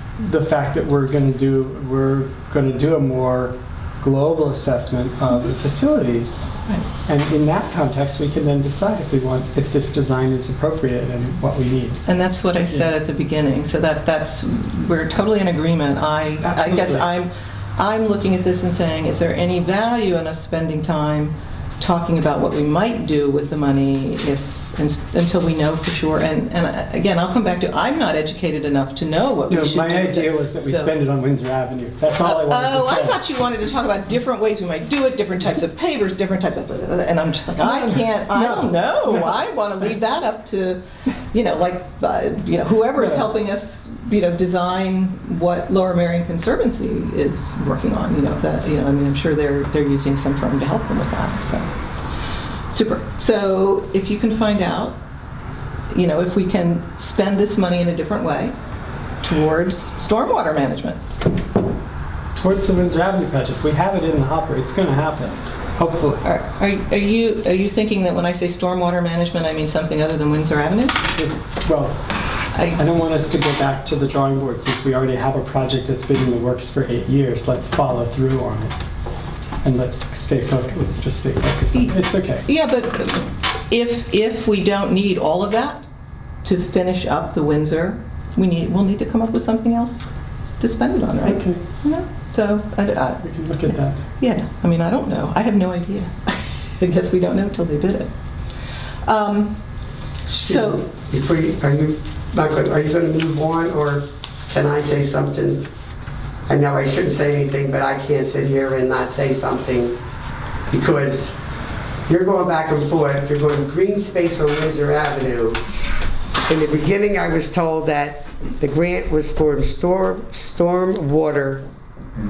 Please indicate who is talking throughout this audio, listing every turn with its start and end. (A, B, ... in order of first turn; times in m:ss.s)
0:00.2-0:06.5 A
0:07.1-0:12.0 A
0:12.0-0:30.9 B
0:16.4-0:17.1 A
0:29.5-0:33.2 A
0:32.1-0:51.7 B
0:37.5-0:39.4 A
0:43.0-0:43.2 A
0:52.7-0:55.0 B
0:55.9-0:58.5 B
0:59.2-1:01.0 B
1:02.3-1:06.2 A
1:06.2-1:11.0 B
1:11.1-1:12.0 A
1:12.7-1:18.7 A
1:19.6-1:22.4 A
1:21.7-1:25.8 B
1:26.4-1:38.1 B
1:31.2-1:31.6 A
1:33.2-1:34.0 A
1:39.0-1:39.6 B
1:40.3-1:40.8 B
1:40.3-1:45.7 C
1:46.5-1:50.0 C
1:50.7-1:51.4 C
1:52.1-1:55.6 C
1:56.5-2:01.7 C